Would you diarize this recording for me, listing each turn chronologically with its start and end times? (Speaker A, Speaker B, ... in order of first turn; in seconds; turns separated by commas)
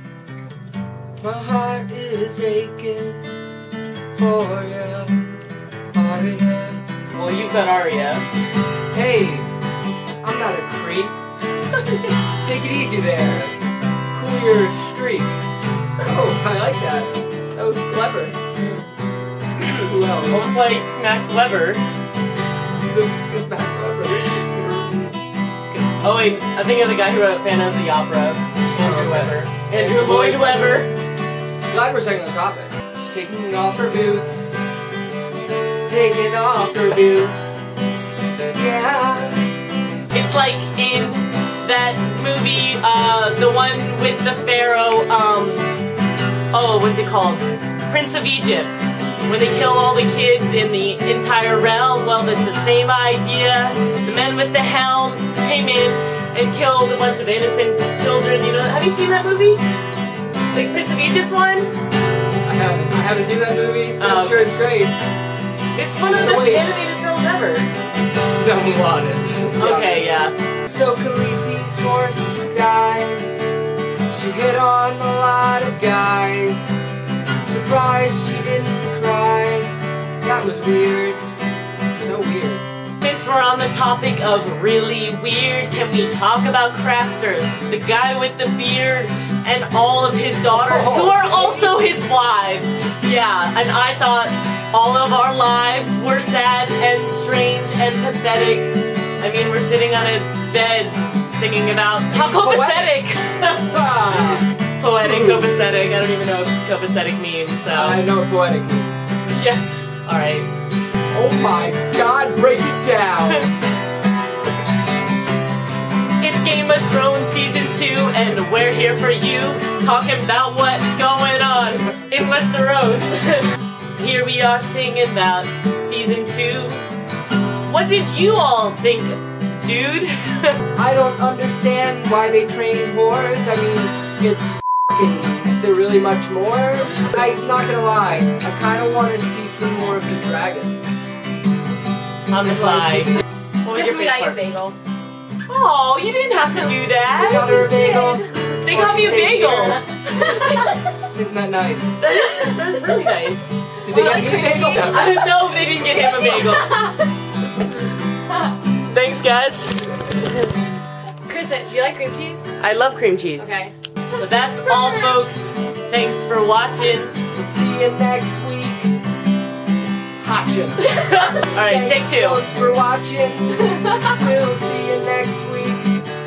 Speaker A: 1.2-3.2, Speaker A: 4.1-5.4, Speaker A: 5.9-6.8, Speaker B: 7.1-8.2, Speaker A: 8.9-9.5, Speaker A: 10.2-11.1, Speaker A: 12.3-13.5, Speaker A: 14.1-15.4, Speaker A: 16.0-18.4, Speaker B: 18.6-18.8, Speaker B: 19.6-21.8, Speaker A: 19.9-20.5, Speaker A: 22.7-24.4, Speaker B: 24.2-25.1, Speaker B: 25.7-30.9, Speaker A: 28.8-30.9, Speaker A: 31.7-34.6, Speaker A: 35.9-37.6, Speaker A: 38.5-39.4, Speaker B: 40.1-45.7, Speaker B: 46.5-59.6, Speaker B: 60.5-61.7, Speaker A: 62.4-65.0, Speaker B: 64.0-64.5, Speaker B: 65.7-67.7, Speaker A: 66.1-66.7, Speaker A: 68.4-70.1, Speaker B: 69.6-70.3, Speaker A: 70.7-73.3, Speaker A: 74.1-76.7, Speaker A: 77.5-81.2, Speaker A: 82.0-82.6, Speaker B: 83.0-108.0, Speaker A: 90.5-91.7, Speaker A: 102.1-103.0, Speaker A: 103.7-104.5, Speaker A: 105.0-105.5, Speaker A: 107.6-109.1, Speaker B: 109.3-110.5, Speaker A: 111.1-113.5, Speaker B: 116.2-126.8, Speaker B: 127.7-130.6, Speaker A: 130.8-140.8, Speaker B: 142.3-144.4, Speaker A: 142.5-143.2, Speaker C: 143.7-144.8, Speaker B: 145.5-147.6, Speaker A: 147.2-149.8, Speaker C: 147.4-148.4, Speaker B: 148.6-150.7, Speaker C: 149.5-150.8, Speaker A: 151.1-152.0, Speaker B: 152.0-153.8, Speaker A: 153.8-155.2, Speaker C: 153.9-157.1, Speaker B: 154.7-156.9, Speaker B: 158.8-160.5, Speaker C: 161.2-162.5, Speaker B: 162.6-163.5, Speaker C: 163.4-163.7, Speaker B: 164.1-167.2, Speaker C: 164.7-165.1, Speaker A: 167.3-169.0, Speaker A: 170.2-176.0, Speaker B: 170.8-172.4